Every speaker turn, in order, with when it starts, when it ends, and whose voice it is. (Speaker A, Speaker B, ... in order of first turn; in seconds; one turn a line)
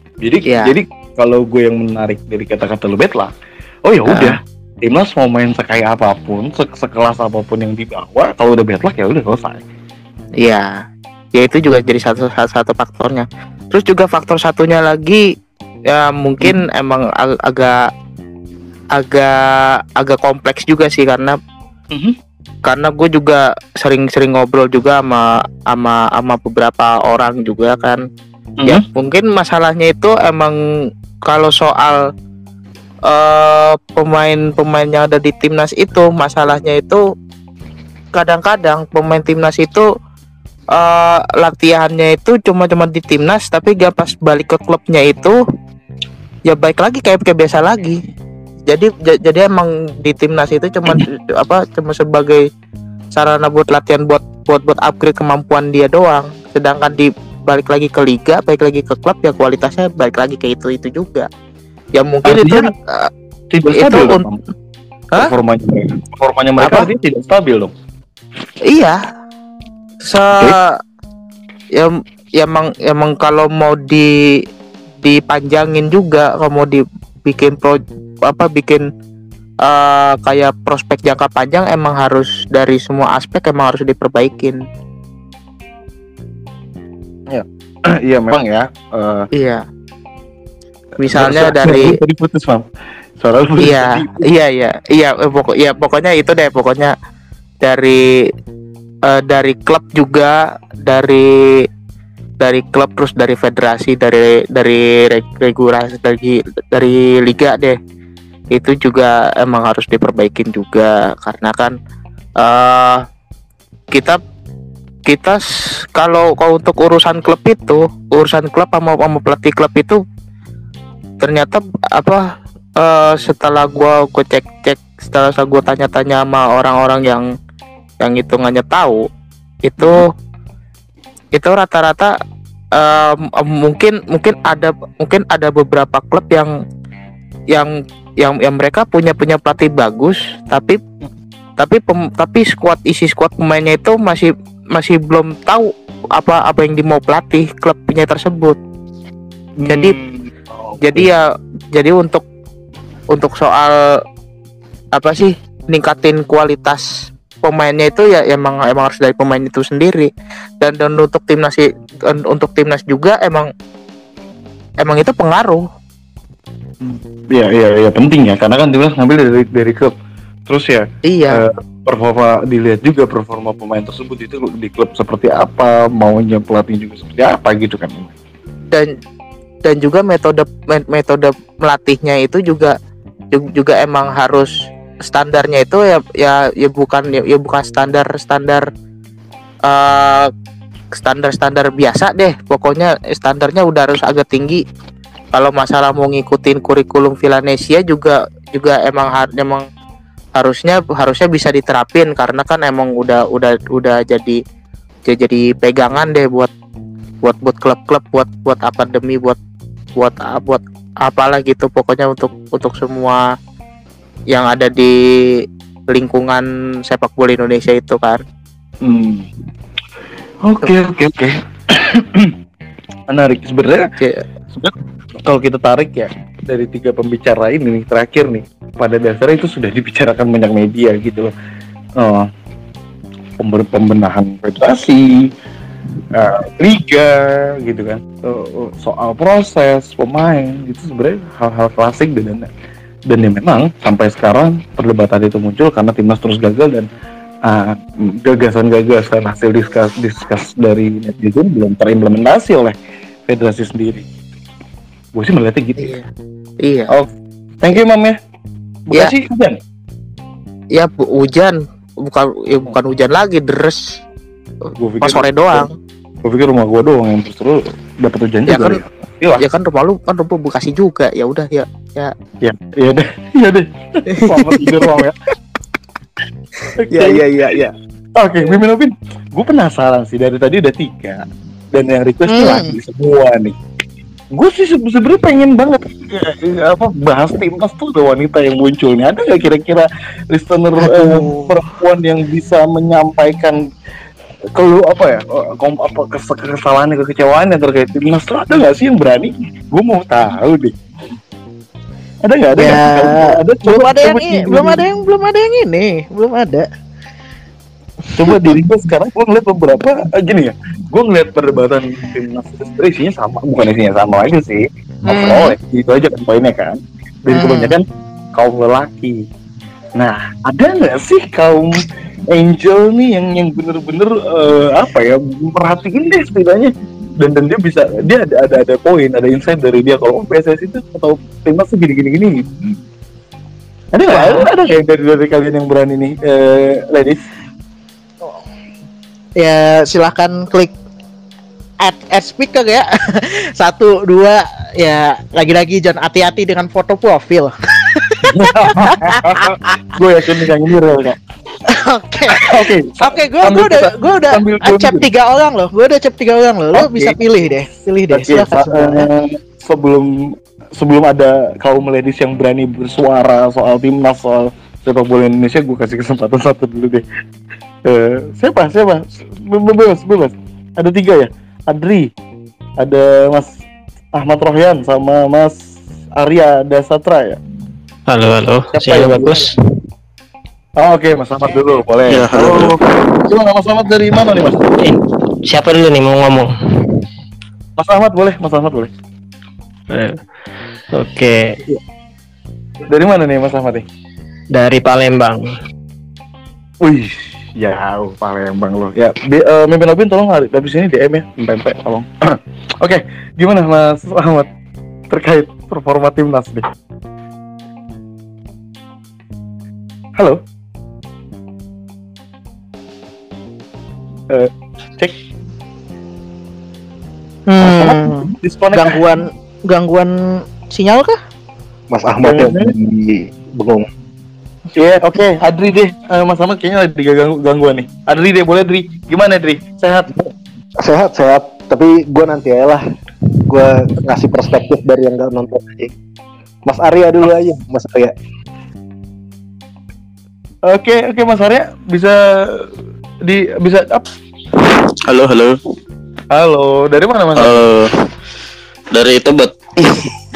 Speaker A: 0.2-3.3
Speaker B: 0.5-0.7
Speaker A: 3.9-9.6
Speaker B: 4.1-4.4
Speaker B: 10.4-10.7
Speaker B: 11.3-15.2
Speaker B: 15.9-17.7
Speaker B: 19.0-19.3
Speaker B: 20.0-21.4
Speaker B: 22.7-28.0
Speaker B: 28.6-30.6
Speaker B: 31.3-32.0
Speaker B: 33.1-37.0
Speaker B: 38.1-39.9
Speaker B: 40.8-45.4
Speaker B: 46.5-48.0
Speaker B: 48.7-52.4
Speaker B: 53.1-61.3
Speaker B: 62.0-63.1
Speaker A: 62.2-62.7
Speaker A: 63.5-64.4
Speaker B: 63.7-64.2
Speaker A: 65.1-67.7
Speaker B: 66.6-66.9
Speaker B: 68.7-69.0
Speaker B: 70.0-70.8
Speaker B: 71.8-74.1
Speaker B: 75.0-78.8
Speaker B: 79.6-84.6
Speaker A: 87.3-89.3
Speaker B: 89.3-89.6
Speaker B: 91.0-92.0
Speaker A: 91.1-92.7
Speaker A: 93.2-94.2
Speaker B: 93.6-96.9
Speaker B: 97.6-98.0
Speaker B: 99.1-100.3
Speaker B: 100.9-101.2
Speaker B: 102.4-107.8
Speaker B: 108.5-111.7
Speaker B: 112.4-113.1
Speaker B: 113.9-114.2
Speaker B: 115.1-115.4
Speaker B: 116.0-120.0
Speaker B: 121.2-122.2
Speaker B: 122.8-127.3
Speaker B: 128.0-129.0
Speaker B: 129.6-130.1
Speaker B: 131.3-132.1
Speaker B: 132.8-136.5
Speaker B: 138.2-140.8
Speaker B: 141.6-148.6
Speaker A: 149.6-151.1
Speaker B: 149.7-150.0
Speaker B: 150.9-151.2
Speaker B: 151.7-152.2
Speaker B: 153.1-153.7
Speaker B: 154.9-156.8
Speaker B: 157.4-160.1
Speaker B: 160.6-163.5
Speaker B: 164.8-165.6
Speaker A: 166.8-169.9
Speaker A: 170.5-178.1
Speaker B: 171.1-171.4
Speaker B: 179.7-182.8
Speaker B: 183.3-184.5
Speaker B: 185.1-188.7
Speaker B: 189.7-190.3
Speaker B: 191.0-194.6
Speaker B: 195.3-199.6
Speaker B: 200.4-204.4
Speaker B: 205.1-206.5
Speaker B: 207.2-209.4
Speaker B: 210.0-213.2
Speaker B: 214.3-214.9
Speaker B: 215.9-218.2
Speaker A: 218.8-219.3
Speaker A: 220.4-222.3
Speaker A: 223.1-223.9
Speaker A: 224.5-231.3
Speaker A: 232.0-232.3
Speaker A: 233.4-235.3
Speaker A: 236.1-242.5
Speaker A: 243.1-246.9
Speaker A: 247.4-252.8
Speaker A: 253.3-254.1
Speaker A: 255.2-255.9
Speaker B: 255.8-256.1
Speaker B: 256.6-256.9
Speaker A: 257.6-258.2
Speaker A: 258.9-259.6
Speaker B: 260.8-263.8
Speaker A: 264.8-265.7
Speaker B: 265.0-265.7
Speaker A: 266.2-269.4
Speaker B: 268.5-268.8
Speaker B: 269.4-272.1
Speaker A: 272.4-275.2
Speaker B: 274.1-274.9
Speaker A: 276.8-277.6
Speaker B: 276.9-277.7
Speaker A: 278.1-283.6
Speaker C: 282.3-282.8
Speaker A: 284.3-293.6
Speaker C: 290.8-291.6
Speaker A: 294.6-300.8
Speaker A: 302.2-304.8
Speaker C: 302.6-306.7
Speaker A: 308.1-319.2
Speaker C: 315.1-315.6
Speaker C: 317.5-317.7
Speaker A: 320.0-332.5
Speaker A: 333.9-337.2
Speaker C: 334.1-334.5
Speaker C: 339.4-340.7
Speaker C: 341.8-349.4
Speaker A: 348.2-351.2
Speaker C: 351.7-359.1
Speaker A: 352.3-355.1
Speaker A: 356.7-357.2
Speaker A: 358.1-367.0
Speaker A: 367.9-372.1
Speaker A: 372.8-373.6
Speaker A: 374.1-375.6
Speaker A: 376.1-377.4
Speaker D: 378.1-379.6
Speaker A: 378.7-379.4
Speaker A: 380.8-384.8
Speaker E: 382.1-382.8
Speaker D: 384.8-387.0
Speaker A: 387.8-388.9
Speaker D: 389.9-390.2
Speaker D: 390.9-391.5
Speaker A: 392.9-393.9
Speaker D: 394.5-395.5
Speaker A: 396.8-404.5
Speaker A: 405.1-406.7
Speaker A: 414.3-415.2
Speaker C: 417.5-421.2
Speaker A: 417.6-419.0
Speaker F: 421.9-423.9
Speaker A: 422.2-422.7
Speaker A: 424.8-430.2
Speaker F: 430.8-432.8
Speaker F: 433.5-435.9
Speaker F: 436.6-438.1
Speaker A: 440.7-442.7
Speaker A: 443.2-444.1
Speaker E: 445.1-445.6
Speaker A: 446.3-447.7
Speaker E: 447.4-447.9
Speaker E: 448.9-450.1